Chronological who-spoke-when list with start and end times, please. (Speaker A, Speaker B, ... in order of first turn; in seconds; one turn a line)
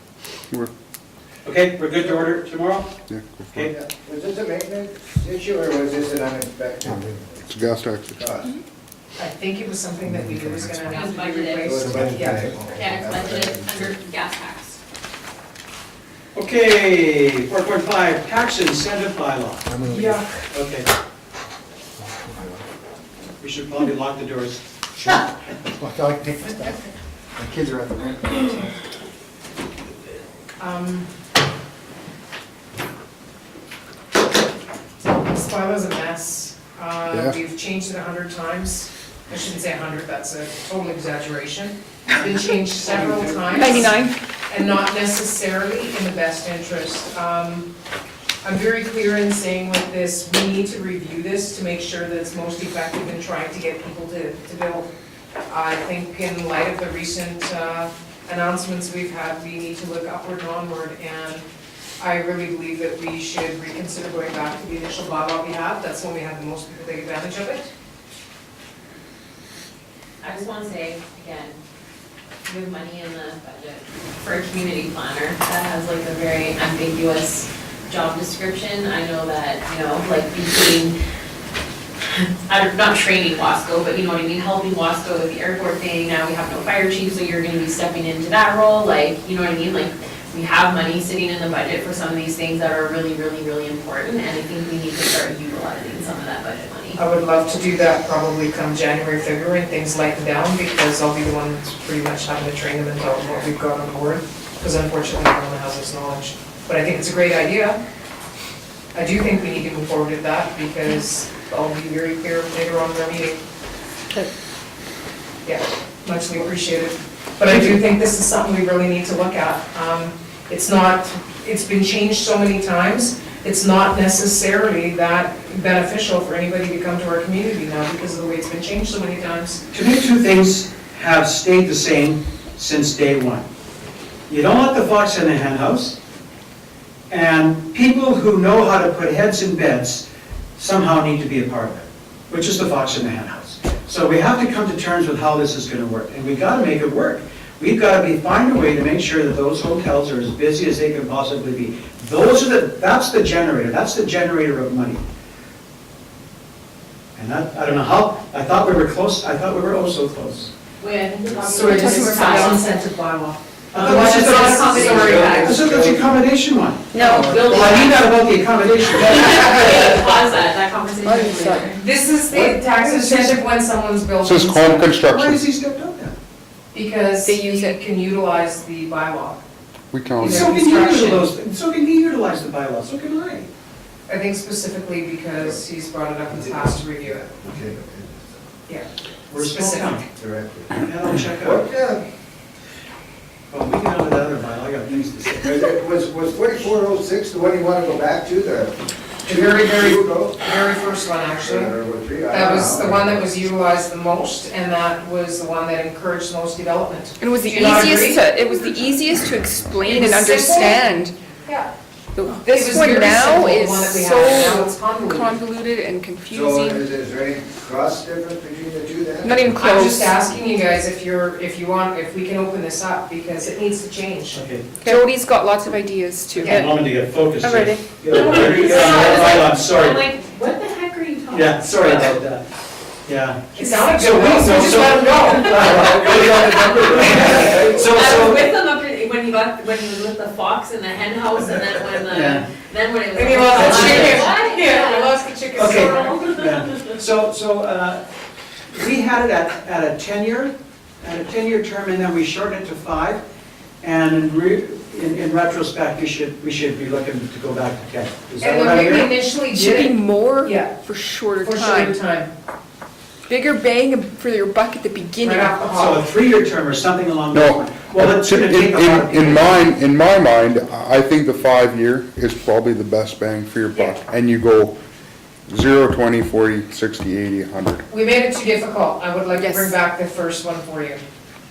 Speaker A: 1.4-3.0
Speaker B: 3.1-3.6
Speaker C: 3.6-7.4
Speaker B: 6.8-8.2
Speaker C: 8.2-8.5
Speaker D: 9.2-12.4
Speaker E: 10.8-11.8
Speaker C: 11.6-13.9
Speaker E: 12.7-14.8
Speaker A: 16.3-19.8
Speaker D: 19.9-20.3
Speaker A: 20.5-20.9
Speaker A: 23.4-25.2
Speaker C: 25.7-26.7
Speaker C: 27.4-28.6
Speaker D: 30.6-31.1
Speaker D: 35.0-47.7
Speaker F: 43.5-44.1
Speaker D: 48.4-54.9
Speaker D: 55.5-61.5
Speaker D: 62.0-67.7
Speaker E: 70.2-71.6
Speaker E: 72.5-81.0
Speaker E: 82.2-97.0
Speaker D: 97.0-107.8
Speaker D: 108.9-113.4
Speaker D: 115.4-129.6
Speaker A: 129.7-133.4
Speaker A: 134.3-136.0
Speaker A: 137.1-140.1
Speaker A: 140.6-155.0
Speaker A: 157.2-160.5
Speaker E: 160.8-162.6
Speaker D: 161.4-165.6
Speaker F: 161.6-162.6
Speaker A: 163.7-169.8
Speaker E: 163.8-165.6
Speaker C: 165.0-166.1
Speaker F: 166.9-167.3
Speaker E: 167.0-168.0
Speaker E: 168.9-171.8
Speaker F: 171.0-171.7
Speaker D: 171.8-174.9
Speaker A: 172.3-173.4
Speaker B: 174.2-175.4
Speaker A: 174.9-176.1
Speaker D: 176.7-179.4
Speaker F: 177.2-177.8
Speaker B: 179.9-180.4
Speaker D: 180.2-181.3
Speaker A: 180.2-183.5
Speaker D: 184.1-187.3
Speaker C: 186.3-188.4
Speaker D: 188.7-190.0
Speaker A: 189.3-190.1
Speaker C: 190.1-190.8
Speaker A: 190.8-191.7
Speaker C: 191.4-192.0
Speaker A: 193.5-195.7
Speaker C: 195.5-200.4
Speaker D: 199.2-201.7
Speaker C: 201.4-203.3
Speaker D: 202.3-208.2
Speaker F: 207.2-211.1
Speaker D: 209.8-210.9
Speaker D: 211.4-211.7
Speaker F: 212.1-216.8
Speaker D: 212.4-215.3
Speaker C: 216.3-219.5
Speaker F: 219.2-220.1
Speaker D: 219.5-224.4
Speaker A: 224.3-224.8
Speaker F: 224.8-226.7
Speaker A: 226.3-230.1
Speaker D: 226.4-226.7
Speaker F: 227.4-228.0
Speaker E: 228.1-232.1
Speaker A: 231.3-232.4
Speaker A: 233.1-238.4
Speaker D: 233.5-236.2
Speaker F: 233.6-233.9
Speaker C: 235.6-238.3
Speaker E: 236.6-245.2
Speaker D: 236.9-237.6
Speaker A: 242.1-242.4
Speaker D: 243.1-246.2
Speaker A: 243.5-244.2
Speaker A: 245.5-248.0
Speaker E: 245.8-246.3
Speaker A: 248.7-253.2
Speaker A: 253.8-259.1
Speaker D: 258.4-260.7
Speaker F: 259.5-261.9
Speaker D: 261.4-262.3
Speaker F: 263.3-265.6
Speaker D: 265.2-266.0
Speaker A: 265.7-269.7
Speaker B: 267.3-274.8
Speaker B: 275.5-277.8
Speaker D: 277.9-281.0
Speaker F: 279.3-279.7